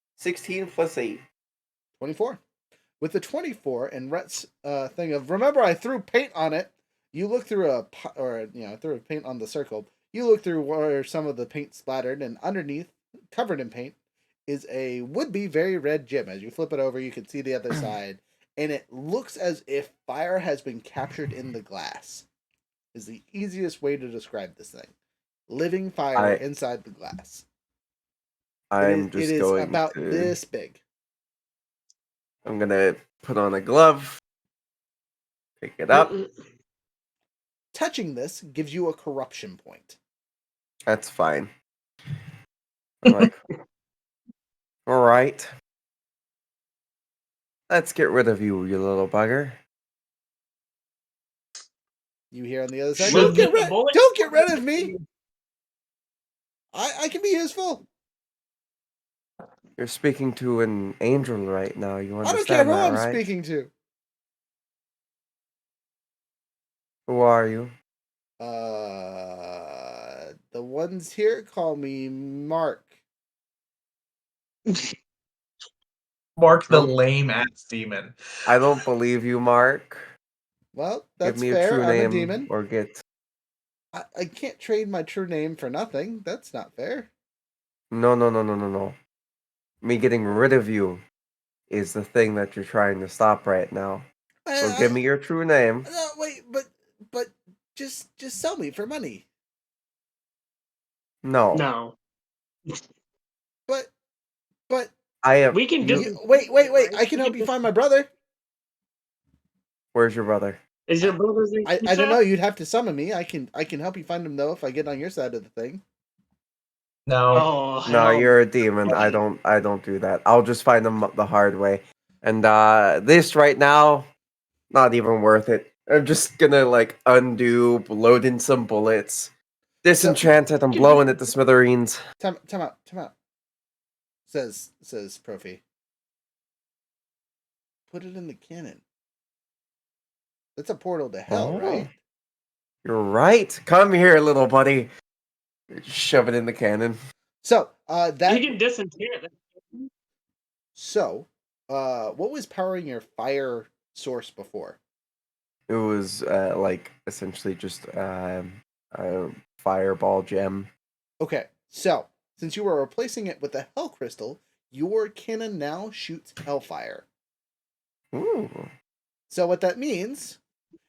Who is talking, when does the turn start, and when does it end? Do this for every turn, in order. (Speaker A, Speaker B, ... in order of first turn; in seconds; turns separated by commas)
Speaker A: 0.2-1.2, Speaker B: 2.0-2.4, Speaker B: 3.0-13.9, Speaker B: 14.5-22.3, Speaker B: 22.9-24.9, Speaker B: 25.5-27.4, Speaker A: 26.1-26.4, Speaker A: 28.7-30.3, Speaker B: 28.8-30.8, Speaker A: 32.4-34.2, Speaker A: 35.6-36.1, Speaker C: 35.9-36.3, Speaker B: 37.7-40.0, Speaker A: 40.9-41.5, Speaker A: 43.0-43.4, Speaker A: 44.9-45.5, Speaker A: 47.7-49.6, Speaker B: 52.3-54.9, Speaker C: 53.1-55.0, Speaker D: 53.1-53.4, Speaker B: 56.7-57.9, Speaker A: 59.8-63.2, Speaker B: 62.2-63.7, Speaker A: 67.1-67.7, Speaker B: 68.4-72.9, Speaker D: 76.4-78.1, Speaker A: 78.5-80.1, Speaker B: 80.7-82.5, Speaker A: 81.2-83.0, Speaker B: 83.9-87.1, Speaker A: 87.9-89.0, Speaker A: 89.8-91.0, Speaker A: 91.7-94.0, Speaker B: 94.5-95.0, Speaker A: 94.6-95.9, Speaker B: 95.8-99.2, Speaker A: 101.2-101.6, Speaker C: 101.5-102.0, Speaker A: 105.2-106.1, Speaker C: 105.5-107.5, Speaker B: 105.8-108.1, Speaker A: 109.9-111.1, Speaker C: 110.9-112.2, Speaker B: 111.6-115.8, Speaker D: 117.1-117.5, Speaker C: 117.3-119.2, Speaker A: 117.8-124.1, Speaker A: 124.7-129.3, Speaker A: 129.8-132.0, Speaker B: 129.9-130.3, Speaker C: 130.7-131.0, Speaker B: 132.2-133.1, Speaker B: 134.3-135.6, Speaker B: 137.9-138.8, Speaker B: 140.6-141.9, Speaker A: 141.3-141.9, Speaker A: 142.8-144.9, Speaker A: 145.7-147.0, Speaker B: 147.4-148.5, Speaker C: 148.3-149.9, Speaker B: 150.7-154.8, Speaker A: 155.7-160.7, Speaker B: 161.2-167.1, Speaker A: 168.1-168.7, Speaker B: 169.3-170.4